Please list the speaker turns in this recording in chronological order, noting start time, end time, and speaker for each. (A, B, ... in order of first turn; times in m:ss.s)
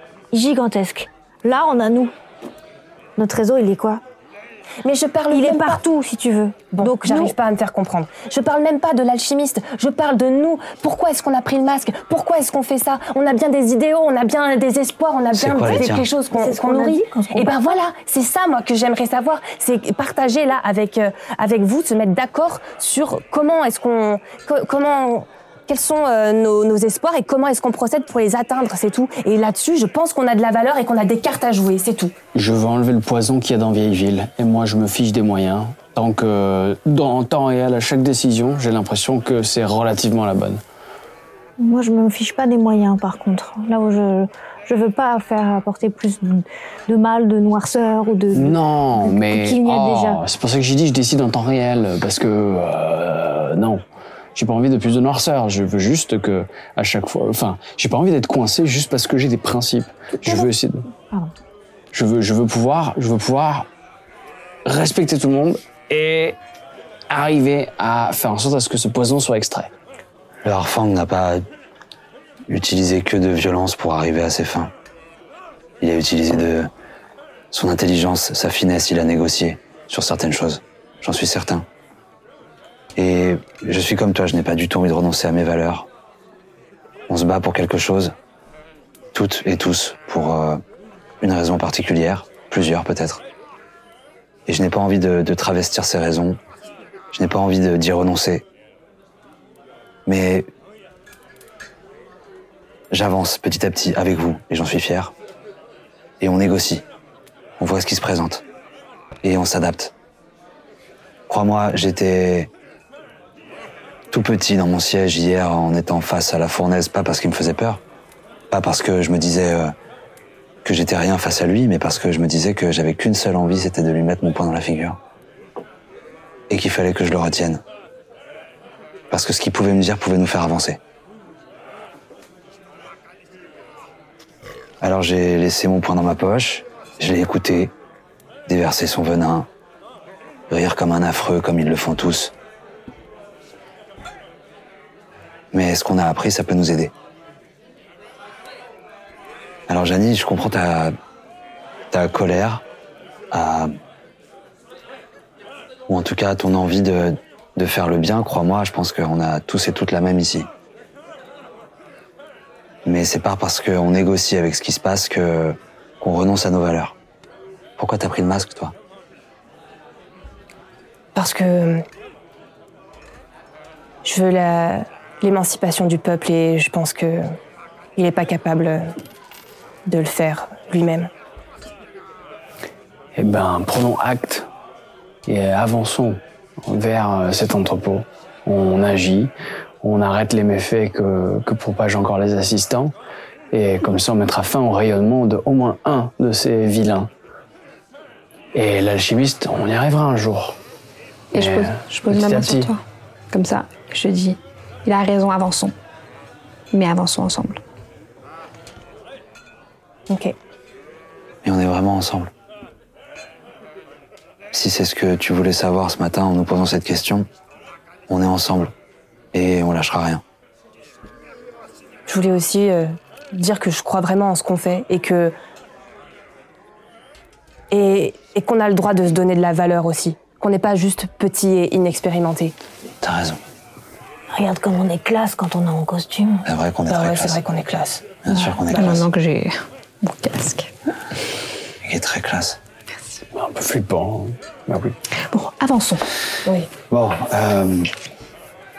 0:00.3-0:02.1 A
0:03.2-0:04.0 A
0:04.8-0:05.8 B
0:05.3-0:07.3 A
0:06.7-0:32.1 B
0:15.3-0:16.0 C
0:16.3-0:17.5 A
0:32.3-0:40.6 D
0:41.6-0:50.2 A
0:48.3-0:53.8 D
0:54.3-1:00.9 D
1:00.2-1:00.5 A
1:01.9-1:03.7 D
1:04.6-1:06.4 D
1:07.1-1:09.7 D
1:10.4-1:11.4 C
1:12.5-1:14.7 C
1:15.8-1:16.7 C
1:17.5-1:21.6 C
1:23.0-1:25.9 C
1:27.1-1:28.1 C
1:29.1-1:30.6 C
1:31.2-1:33.2 C
1:34.5-1:36.4 C
1:37.1-1:38.4 C
1:40.0-1:40.5 C
1:42.9-1:45.1 C
1:46.2-1:46.8 C
1:47.6-1:48.4 C
1:49.2-1:49.9 C
1:51.3-1:52.5 C
1:54.1-1:57.8 C
1:58.5-1:59.7 C
2:00.6-2:05.0 C
2:06.5-2:07.6 C
2:09.1-2:10.8 C
2:14.8-2:17.7 C
2:18.5-2:19.5 C
2:20.5-2:22.3 C
2:25.5-2:26.9 C
2:29.7-2:30.9 C
2:31.9-2:32.6 C
2:33.3-2:33.7 C
2:35.9-2:40.5 C
2:42.8-2:47.0 C
2:47.8-2:48.7 C
2:51.1-2:51.8 B
2:54.0-2:57.3 B
2:58.0-2:58.9 B
2:59.8-3:01.1 B
3:03.2-3:04.5 D
3:05.2-3:12.9 D
3:13.5-3:17.1 D
3:18.5-3:20.6 D
3:21.3-3:25.7 E
3:21.4-3:22.7 D
3:26.7-3:27.6 E
3:30.1-3:30.4 B
3:31.4-3:32.3 C
3:34.5-3:37.3 C
3:38.1-3:38.7 C
3:39.3-3:40.2 C
3:42.1-3:45.3 B
3:47.7-3:52.5 B
3:53.0-3:53.4 C
3:54.3-3:56.4 A
3:56.4-3:57.4 C
3:56.9-3:59.0 B
3:58.2-3:59.1 C
3:58.7-4:00.7 E
4:01.8-4:02.6 C
4:03.3-4:04.9 D
4:05.3-4:06.1 E
4:06.4-4:06.7 B
4:06.9-4:07.9 C